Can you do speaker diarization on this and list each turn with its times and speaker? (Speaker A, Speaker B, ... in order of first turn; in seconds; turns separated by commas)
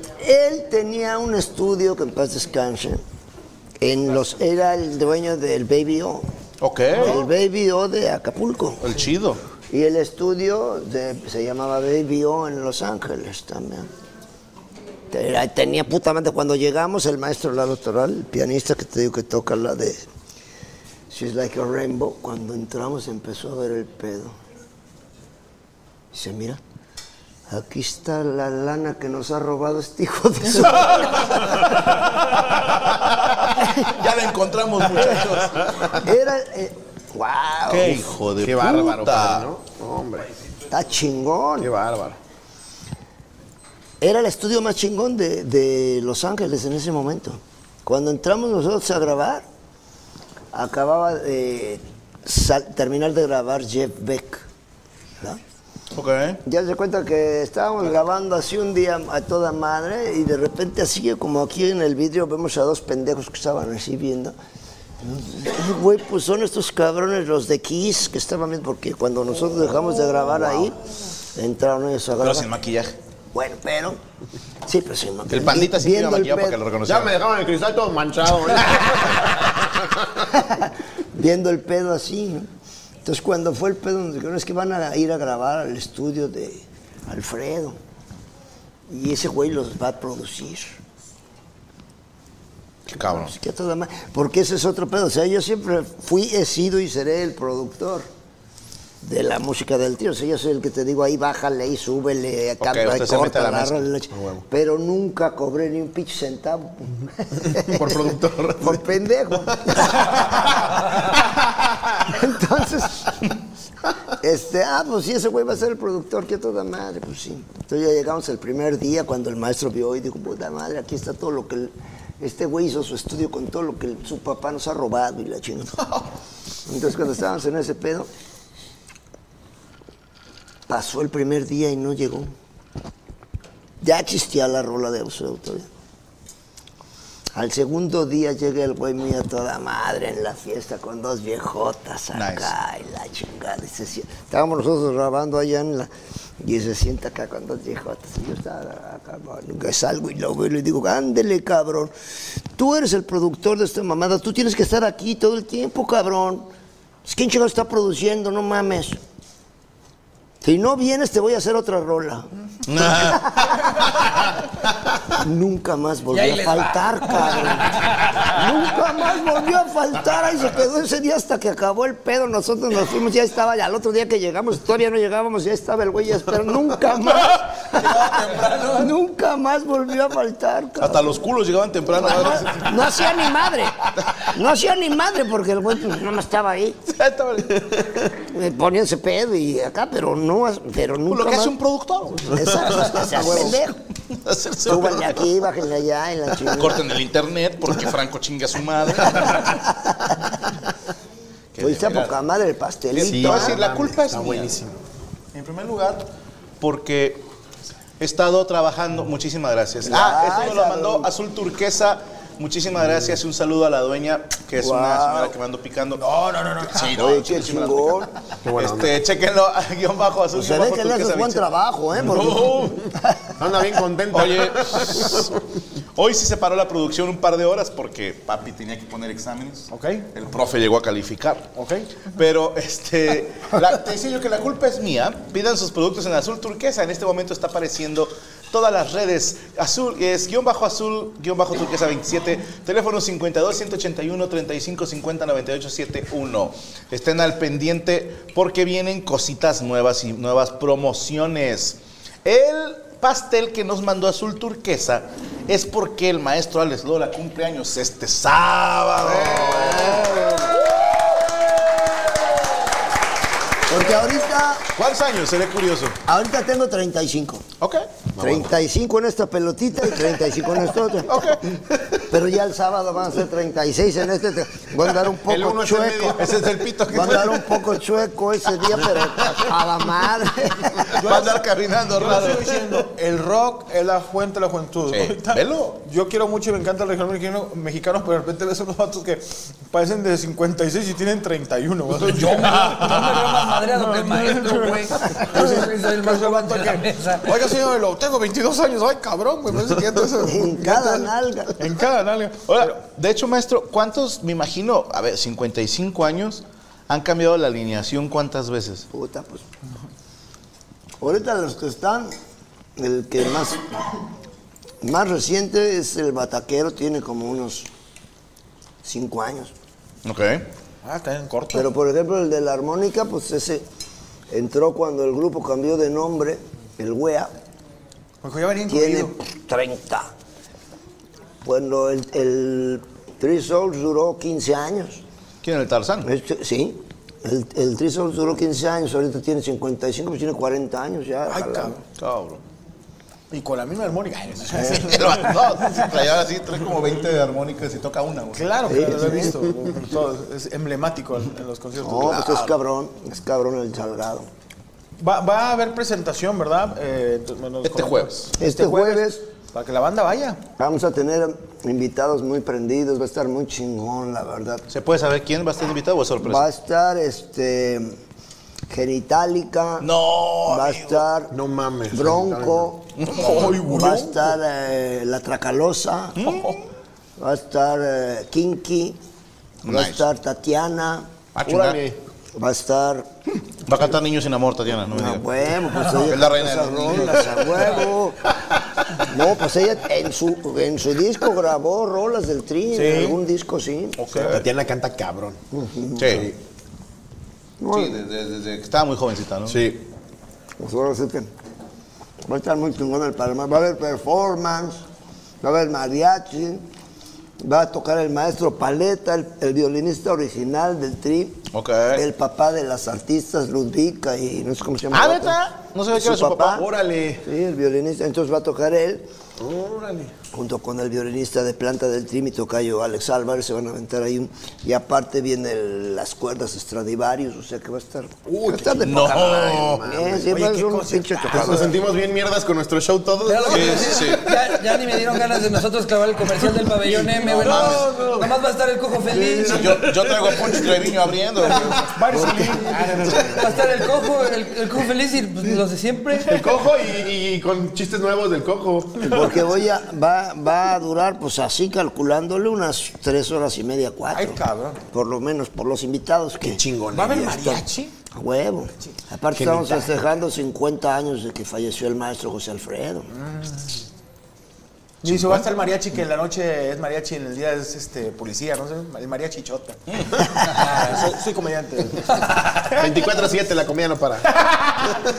Speaker A: 0.2-3.0, Speaker A: 3.8-6.2, Speaker B: 6.6-7.2, Speaker A: 7.0-8.8, Speaker B: 8.8-9.4, Speaker A: 9.7-13.9, Speaker A: 15.1-20.1, Speaker A: 21.1-24.3, Speaker A: 26.1-26.6, Speaker A: 27.5-31.6, Speaker B: 32.4-35.7, Speaker A: 35.9-38.0, Speaker B: 37.7-39.5, Speaker C: 38.3-40.3, Speaker A: 40.7-41.7, Speaker C: 41.6-42.2, Speaker A: 44.0-49.4, Speaker A: 50.5-54.4, Speaker B: 55.9-56.4, Speaker A: 56.4-64.3, Speaker A: 65.0-70.8, Speaker A: 71.3-72.5, Speaker B: 72.2-72.9, Speaker A: 73.3-74.0, Speaker A: 74.7-76.6, Speaker B: 75.3-77.1, Speaker C: 76.8-79.8, Speaker A: 80.3-82.5, Speaker A: 83.0-87.8, Speaker A: 88.9-90.8, Speaker B: 92.9-93.3, Speaker A: 92.9-98.1, Speaker A: 99.0-110.7, Speaker B: 102.6-103.9, Speaker C: 107.5-108.8, Speaker A: 111.9-113.1, Speaker A: 114.2-125.8, Speaker A: 126.7-128.1, Speaker A: 130.7-132.3, Speaker A: 133.8-135.7, Speaker A: 137.3-151.9, Speaker B: 142.1-142.5, Speaker A: 152.5-156.5, Speaker A: 157.1-159.0, Speaker A: 160.4-162.2, Speaker B: 162.7-164.3, Speaker A: 162.8-163.9, Speaker A: 165.2-167.8, Speaker D: 166.1-168.4, Speaker A: 168.3-181.1, Speaker B: 178.1-178.9, Speaker B: 180.8-183.2, Speaker A: 181.9-186.8, Speaker B: 186.9-187.6, Speaker A: 188.2-191.5, Speaker B: 191.1-193.6, Speaker A: 192.3-193.8, Speaker B: 194.1-195.3, Speaker A: 194.6-196.9, Speaker B: 196.5-199.6, Speaker A: 199.3-200.1, Speaker B: 201.5-202.1, Speaker A: 201.6-203.7, Speaker B: 202.9-204.5, Speaker C: 203.1-204.7, Speaker B: 205.3-206.0, Speaker B: 206.6-207.2, Speaker B: 208.0-216.0, Speaker A: 209.8-211.1, Speaker A: 214.6-215.3, Speaker E: 216.0-217.0, Speaker B: 216.6-221.5, Speaker A: 217.0-218.1, Speaker C: 218.4-219.0, Speaker A: 220.3-223.3, Speaker C: 222.1-222.8, Speaker C: 223.4-225.2, Speaker B: 224.1-225.4, Speaker B: 225.9-231.5, Speaker E: 229.7-230.1, Speaker E: 231.5-231.9, Speaker B: 232.0-260.3, Speaker A: 259.1-260.6, Speaker C: 259.5-259.9, Speaker A: 263.7-264.6, Speaker B: 264.7-266.0, Speaker A: 266.1-267.4, Speaker B: 267.6-267.8, Speaker C: 268.1-268.5, Speaker A: 268.2-271.2, Speaker B: 271.1-271.4, Speaker A: 272.1-276.2, Speaker C: 275.2-277.3, Speaker B: 276.1-277.5, Speaker A: 276.9-280.9, Speaker E: 280.9-302.8, Speaker B: 281.0-282.8, Speaker B: 284.9-285.8, Speaker D: 292.0-297.4, Speaker B: 292.3-292.7, Speaker A: 300.2-301.5, Speaker B: 302.5-308.9, Speaker A: 308.9-309.4, Speaker A: 311.0-312.1, Speaker A: 312.8-314.0, Speaker A: 314.8-317.7, Speaker A: 318.8-319.5, Speaker B: 320.0-320.4, Speaker E: 320.8-321.7, Speaker A: 321.5-323.6, Speaker A: 324.3-327.3, Speaker E: 328.2-329.1, Speaker A: 328.7-330.1, Speaker A: 331.4-335.0, Speaker B: 335.4-336.1, Speaker A: 336.0-341.7, Speaker E: 341.3-341.8, Speaker B: 341.9-342.4, Speaker E: 343.3-346.1, Speaker A: 344.6-345.0, Speaker B: 344.7-348.6, Speaker E: 348.3-352.3, Speaker A: 348.6-349.4, Speaker A: 351.8-354.2, Speaker B: 352.1-352.5, Speaker E: 355.0-360.4, Speaker B: 357.6-358.3, Speaker A: 358.4-359.2, Speaker A: 360.6-364.6, Speaker B: 364.7-366.5, Speaker A: 366.2-367.9, Speaker A: 368.7-369.9, Speaker B: 369.8-371.1, Speaker A: 370.5-371.3, Speaker C: 371.3-374.2, Speaker A: 371.9-376.3, Speaker B: 372.9-374.0, Speaker B: 376.1-376.5, Speaker A: 377.2-379.0, Speaker B: 379.6-380.1, Speaker A: 379.6-381.1, Speaker B: 381.3-381.8, Speaker C: 381.4-382.0, Speaker A: 382.3-383.1, Speaker B: 383.6-385.2, Speaker A: 384.9-388.2, Speaker B: 386.0-387.5, Speaker E: 387.0-387.5, Speaker A: 389.1-394.0, Speaker E: 392.7-393.2, Speaker B: 394.0-394.4, Speaker C: 394.2-395.4, Speaker A: 395.5-396.2, Speaker B: 396.0-396.3, Speaker C: 396.1-396.3, Speaker A: 397.6-398.0, Speaker B: 397.7-399.6, Speaker C: 399.5-399.8, Speaker A: 400.6-401.3, Speaker A: 402.2-404.8, Speaker A: 405.4-406.6, Speaker A: 407.4-415.4, Speaker B: 411.5-412.0, Speaker B: 414.9-416.6, Speaker A: 415.9-416.6, Speaker C: 416.5-417.2, Speaker A: 417.2-419.0, Speaker C: 419.4-420.1, Speaker A: 420.3-431.8, Speaker C: 428.3-430.4, Speaker B: 428.8-429.8, Speaker E: 430.3-431.6, Speaker C: 431.2-435.6, Speaker D: 433.2-439.9, Speaker B: 433.5-434.2, Speaker C: 436.4-437.3, Speaker B: 437.2-437.8, Speaker E: 437.2-438.3, Speaker C: 439.1-440.9, Speaker B: 439.5-441.9, Speaker E: 441.5-443.7, Speaker C: 441.5-442.1, Speaker A: 442.2-442.4, Speaker D: 442.6-446.6, Speaker C: 443.1-443.9, Speaker C: 446.3-449.5, Speaker A: 449.0-454.4, Speaker E: 454.1-454.8, Speaker A: 454.9-463.1, Speaker C: 456.4-457.3, Speaker E: 456.9-457.9, Speaker C: 459.3-459.9, Speaker E: 463.1-463.8, Speaker E: 465.0-473.2, Speaker B: 465.1-465.5, Speaker C: 472.7-474.3, Speaker E: 474.3-474.8